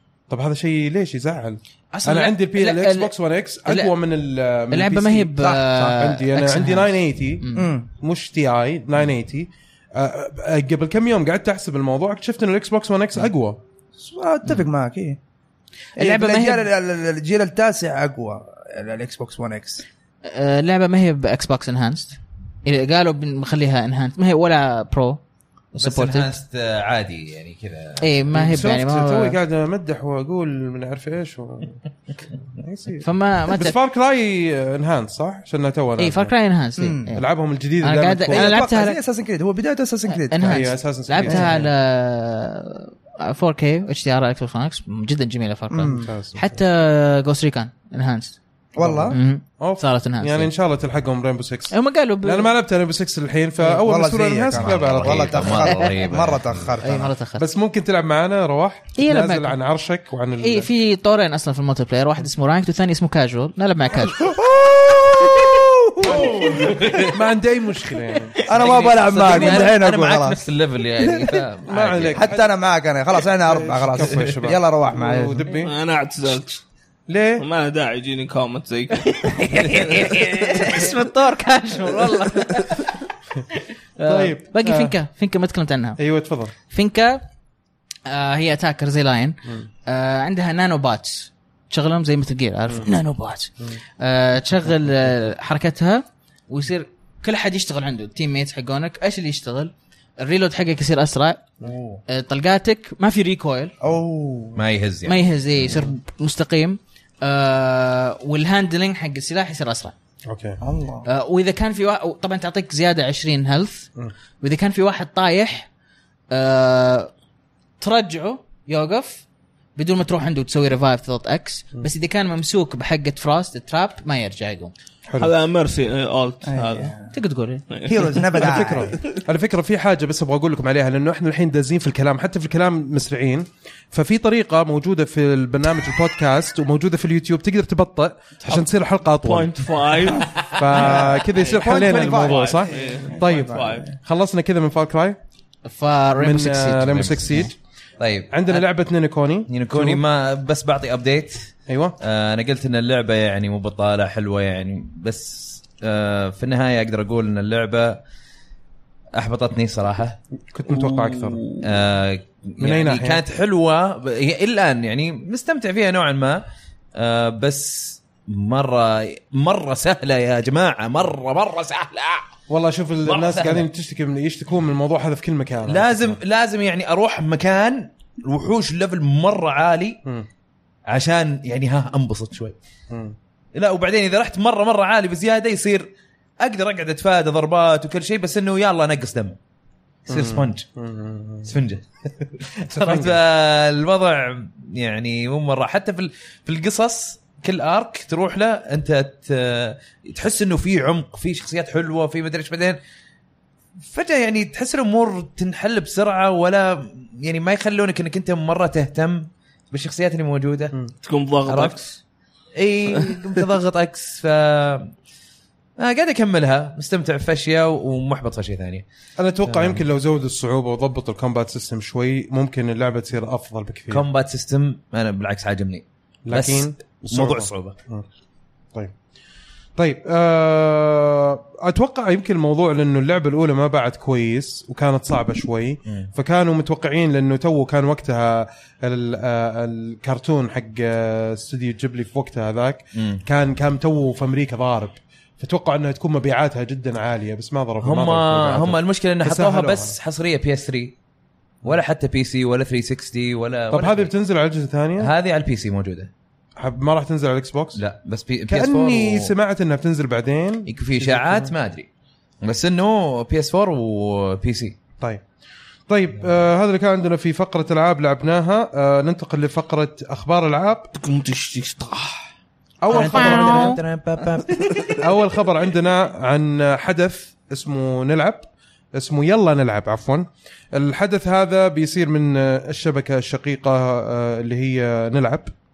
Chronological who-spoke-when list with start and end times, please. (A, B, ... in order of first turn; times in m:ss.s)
0:00.3-0:13.6 A
0:01.9-0:03.1 B
0:03.6-0:03.9 B
0:04.7-0:07.7 B
0:07.6-0:07.9 C
0:14.0-0:15.2 C
0:16.0-0:16.7 B
0:16.0-0:19.8 C
0:20.2-0:25.2 B
0:25.7-0:26.3 B
0:25.8-0:28.1 D
0:28.0-0:29.4 B
0:28.3-0:31.8 A
0:32.6-0:36.3 A
0:33.0-0:33.8 B
0:36.0-0:37.2 B
0:36.8-0:37.1 C
0:37.1-0:38.6 A
0:37.8-0:39.0 B
0:38.3-0:41.5 C
0:40.1-0:48.4 B
0:40.5-0:41.7 A
0:45.7-0:46.1 C
0:45.9-0:46.5 A
0:48.8-0:49.2 C
0:48.8-0:55.6 A
0:49.1-0:50.5 B
0:51.7-0:52.5 B
0:53.7-0:57.1 C
0:54.5-0:57.0 D
0:55.6-0:55.9 B
0:56.8-0:57.4 B
0:57.4-1:00.7 A
0:59.0-0:59.6 B
1:00.4-1:04.3 B
1:04.2-1:07.0 C
1:06.0-1:07.2 D
1:06.1-1:06.6 A
1:07.1-1:08.4 A
1:08.4-1:10.4 C
1:08.5-1:12.3 D
1:11.0-1:11.4 C
1:11.6-1:12.5 A
1:12.1-1:15.5 C
1:13.4-1:15.7 A
1:15.6-1:16.6 E
1:17.1-1:17.4 A
1:17.4-1:20.8 E
1:19.1-1:26.0 B
1:19.8-1:20.4 D
1:24.0-1:24.9 A
1:26.0-1:26.5 A
1:26.7-1:27.2 B
1:28.0-1:41.4 B
1:41.6-1:42.0 D
1:42.1-1:43.7 B
1:43.8-1:44.6 C
1:44.5-1:45.8 D
1:45.0-1:49.9 B
1:50.3-1:50.6 A
1:50.6-1:51.1 C
1:51.0-1:53.9 B
1:54.4-1:55.7 B
1:56.3-1:57.1 B
1:57.8-1:59.2 B
1:59.8-2:04.7 B
2:05.2-2:06.9 E
2:06.5-2:07.1 C
2:07.1-2:07.6 B
2:07.7-2:09.2 E
2:07.8-2:09.0 C
2:08.4-2:25.2 A
2:19.2-2:21.0 E
2:20.4-2:20.7 D
2:20.7-2:23.9 C
2:21.7-2:23.9 E
2:25.6-2:27.5 B
2:26.2-2:27.5 A
2:26.8-2:27.4 D
2:28.0-2:28.6 D
2:28.3-2:30.0 A
2:29.5-2:38.0 D
2:31.7-2:32.0 A
2:39.1-2:40.2 D
2:40.5-2:41.4 A
2:40.7-2:41.6 E
2:41.6-2:52.3 D
2:42.6-2:43.2 A
2:52.5-2:56.2 A
2:53.0-2:53.7 D
2:55.7-3:00.0 D
3:00.9-3:02.6 D
3:02.9-3:03.2 A
3:03.5-3:05.9 D
3:06.4-3:09.4 D
3:10.1-3:10.7 D
3:10.1-3:11.5 A
3:11.4-3:22.8 D
3:12.7-3:13.2 A
3:23.8-3:30.7 D
3:31.0-3:32.0 E
3:31.5-3:31.8 D
3:32.5-3:34.9 D
3:32.9-3:33.2 E
3:35.8-3:38.8 D
3:39.2-3:44.0 A
3:39.4-3:39.8 D
3:43.9-3:47.8 D
3:46.2-3:48.0 A
3:49.8-4:09.9 A
4:02.9-4:03.2 D
4:07.8-4:11.0 D
4:11.6-4:14.1 D
4:13.7-4:15.1 A
4:15.0-4:16.1 D
4:16.6-4:17.8 A
4:17.7-4:19.3 D
4:18.5-4:21.5 A
4:20.7-4:21.9 D
4:22.4-4:24.8 D
4:25.9-4:30.9 A
4:30.9-4:32.3 E
4:32.8-4:33.8 A
4:32.9-4:34.9 D
4:32.9-4:33.8 B
4:34.5-4:34.9 E
4:35.0-4:45.5 A